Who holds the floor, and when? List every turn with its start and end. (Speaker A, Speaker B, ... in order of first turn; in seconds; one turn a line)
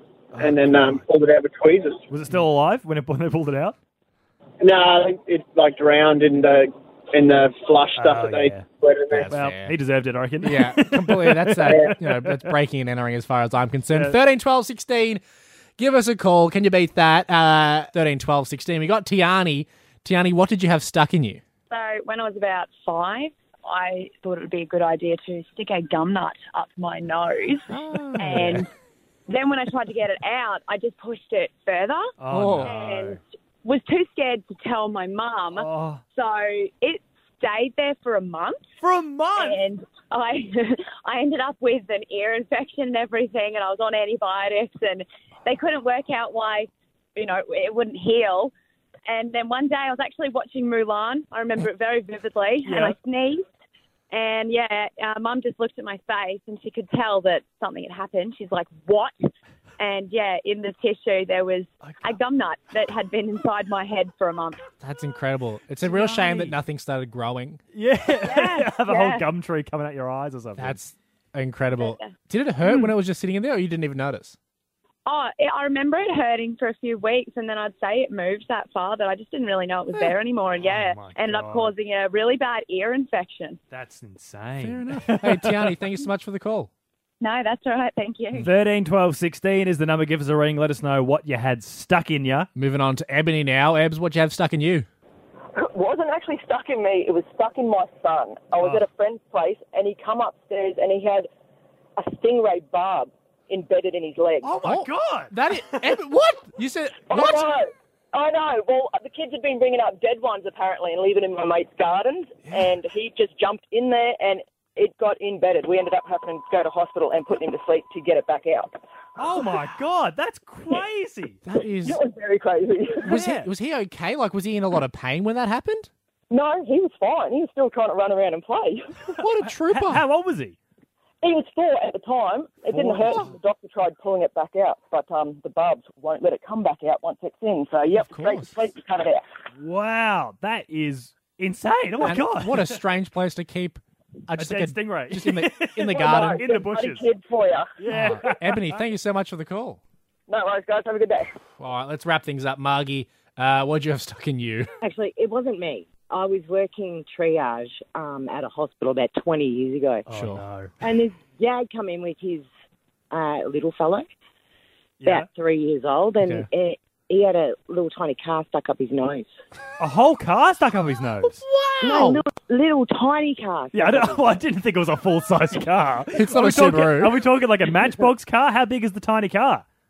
Speaker A: 0.4-2.0
Speaker B: 0.4-0.9
Speaker C: 2.1-3.8
Speaker A: 4.6-9.2
Speaker C: 8.0-8.7
Speaker B: 9.1-9.7
Speaker C: 9.3-12.3
Speaker B: 10.4-15.2
Speaker B: 15.8-21.4
Speaker D: 21.7-27.7
Speaker B: 27.7-28.6
Speaker D: 28.2-28.6
Speaker D: 29.3-32.1
Speaker C: 32.2-33.2
Speaker B: 32.3-32.8
Speaker D: 32.7-38.6
Speaker C: 35.5-36.0
Speaker C: 38.8-39.6
Speaker D: 39.4-48.5
Speaker D: 49.1-53.4
Speaker C: 52.6-53.0
Speaker D: 54.1-59.2
Speaker D: 59.8-64.6
Speaker C: 61.8-62.2
Speaker B: 64.8-67.6
Speaker C: 65.8-66.6
Speaker C: 67.7-70.8
Speaker D: 68.2-69.2
Speaker B: 70.6-74.4
Speaker D: 75.0-83.6
Speaker C: 80.6-81.7
Speaker C: 83.7-85.7
Speaker B: 84.6-86.7
Speaker D: 87.2-88.5
Speaker C: 88.4-92.5
Speaker B: 92.5-94.9
Speaker E: 95.5-101.3
Speaker E: 102.0-104.5
Speaker C: 104.4-105.3
Speaker B: 104.6-107.5
Speaker E: 107.0-118.8
Speaker C: 119.2-121.4
Speaker B: 121.5-122.0
Speaker E: 121.6-123.2
Speaker C: 123.0-123.5
Speaker B: 123.0-125.9
Speaker E: 126.3-129.2
Speaker B: 129.2-130.0
Speaker C: 129.4-130.6
Speaker E: 131.2-139.2
Speaker C: 132.7-133.3
Speaker B: 138.1-138.5
Speaker C: 139.6-142.8
Speaker B: 142.0-146.4
Speaker C: 144.4-147.1
Speaker E: 145.9-147.7
Speaker C: 147.8-148.7
Speaker B: 147.9-149.8
Speaker E: 150.3-151.3
Speaker B: 151.6-154.7
Speaker F: 154.8-160.1
Speaker C: 160.1-160.7
Speaker B: 160.1-160.4
Speaker F: 160.8-162.5
Speaker F: 163.1-164.1
Speaker C: 165.0-165.2
Speaker F: 165.0-169.3
Speaker B: 166.2-166.4
Speaker C: 169.8-171.4
Speaker B: 171.2-172.2
Speaker F: 171.8-174.1
Speaker C: 173.7-179.6
Speaker B: 176.1-177.2